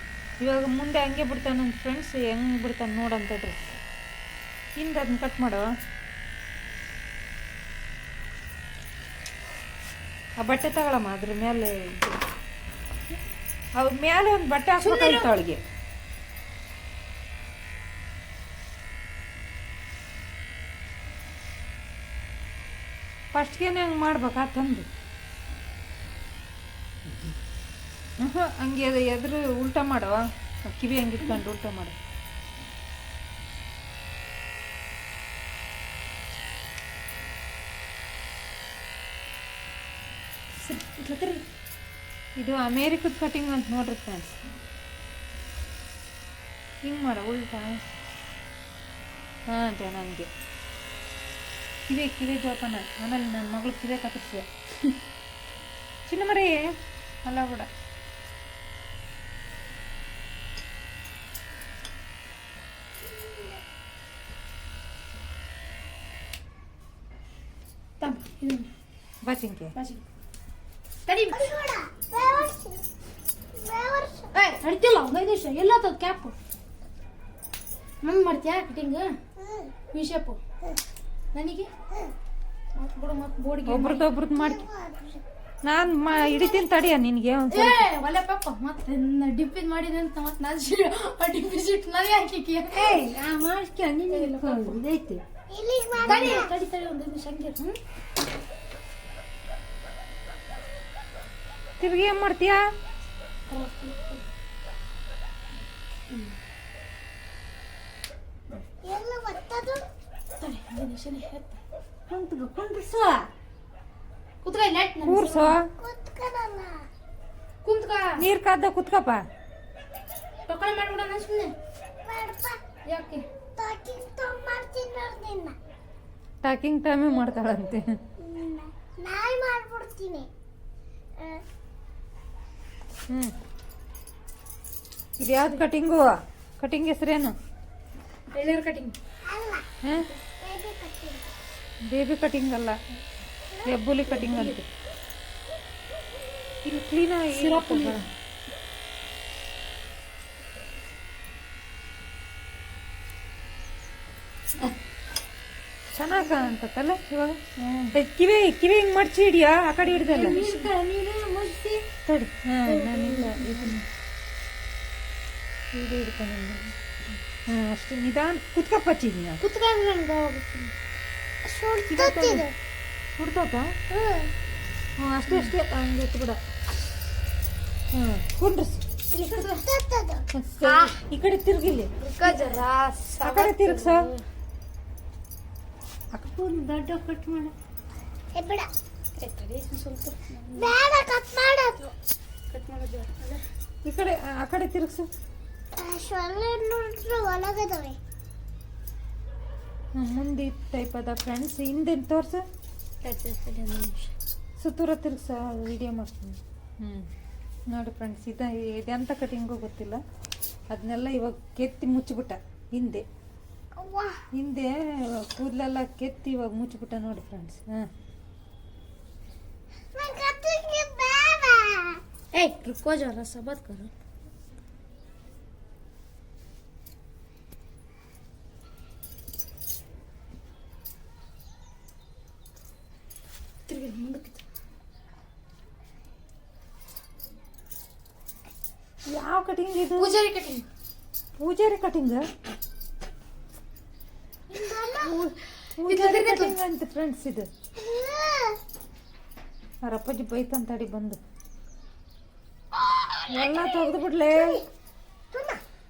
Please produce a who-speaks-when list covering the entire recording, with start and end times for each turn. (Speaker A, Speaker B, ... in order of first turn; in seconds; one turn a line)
Speaker A: 0.4-3.6
Speaker A: 4.8-5.7
Speaker A: 10.4-12.2
Speaker A: 13.8-15.6
Speaker B: 14.8-15.3
Speaker A: 23.3-24.9
Speaker A: 28.2-31.9
Speaker B: 40.6-41.4
Speaker A: 42.4-44.4
Speaker A: 46.8-47.8
Speaker A: 49.5-50.3
Speaker A: 51.9-54.5
Speaker A: 56.1-56.6
Speaker A: 57.2-57.7
Speaker C: 63.0-63.6
Speaker B: 68.0-68.7
Speaker A: 69.2-69.7
Speaker B: 69.8-70.0
Speaker B: 71.1-71.4
Speaker C: 71.3-72.8
Speaker B: 72.2-72.5
Speaker C: 73.5-74.3
Speaker B: 74.3-76.3
Speaker B: 78.0-79.1
Speaker C: 79.4-79.7
Speaker B: 79.9-80.4
Speaker B: 81.3-81.7
Speaker B: 82.8-84.1
Speaker A: 83.7-84.6
Speaker C: 84.3-85.2
Speaker A: 85.7-87.8
Speaker C: 86.1-86.7
Speaker B: 87.5-93.0
Speaker D: 92.7-95.2
Speaker B: 94.1-94.8
Speaker C: 95.5-96.5
Speaker B: 96.0-97.8
Speaker A: 101.8-102.6
Speaker B: 103.5-104.2
Speaker C: 108.8-109.8
Speaker B: 110.4-111.6
Speaker D: 112.1-113.2
Speaker B: 114.4-115.6
Speaker A: 115.0-115.7
Speaker C: 115.7-116.8
Speaker B: 117.6-118.2
Speaker A: 118.2-119.2
Speaker B: 120.5-121.5
Speaker C: 122.0-122.6
Speaker B: 122.9-123.2
Speaker C: 123.6-125.5
Speaker A: 126.4-127.9
Speaker C: 128.2-130.3
Speaker A: 133.1-133.3
Speaker A: 135.2-137.3
Speaker B: 138.3-138.9
Speaker C: 139.2-141.3
Speaker A: 141.9-142.8
Speaker A: 143.6-144.6
Speaker B: 144.1-144.6
Speaker A: 146.6-148.1
Speaker B: 147.3-148.0
Speaker A: 155.9-160.4
Speaker B: 157.6-157.9
Speaker D: 160.0-161.8
Speaker B: 160.1-160.7
Speaker A: 162.1-163.8
Speaker D: 162.8-163.3
Speaker B: 163.0-163.7
Speaker A: 165.7-166.7
Speaker A: 167.5-169.4
Speaker B: 169.4-170.8
Speaker C: 171.4-172.5
Speaker A: 171.9-172.4
Speaker A: 173.2-173.7
Speaker C: 173.9-174.3
Speaker A: 175.0-176.4
Speaker A: 177.9-178.8
Speaker B: 179.1-179.6
Speaker C: 179.3-180.2
Speaker A: 180.3-182.4
Speaker B: 180.6-181.0
Speaker B: 182.0-184.2
Speaker A: 183.2-184.1
Speaker D: 186.2-187.5
Speaker C: 188.3-188.7
Speaker B: 189.2-190.7
Speaker C: 190.6-191.9
Speaker B: 192.5-193.4
Speaker A: 193.8-195.1
Speaker C: 195.8-198.0
Speaker A: 199.9-202.4
Speaker B: 203.0-204.1
Speaker A: 204.6-207.1
Speaker A: 207.7-210.0
Speaker A: 210.7-213.0
Speaker C: 213.8-214.2
Speaker A: 214.3-217.9
Speaker C: 219.9-222.0
Speaker B: 222.3-223.9
Speaker B: 233.7-234.4
Speaker A: 239.1-240.1
Speaker B: 239.9-240.7
Speaker A: 241.4-242.2
Speaker C: 244.5-245.2
Speaker A: 245.0-247.5
Speaker B: 245.8-246.6
Speaker C: 247.8-248.6
Speaker A: 249.8-251.2
Speaker C: 253.2-254.6
Speaker A: 253.3-254.6
Speaker C: 255.3-255.6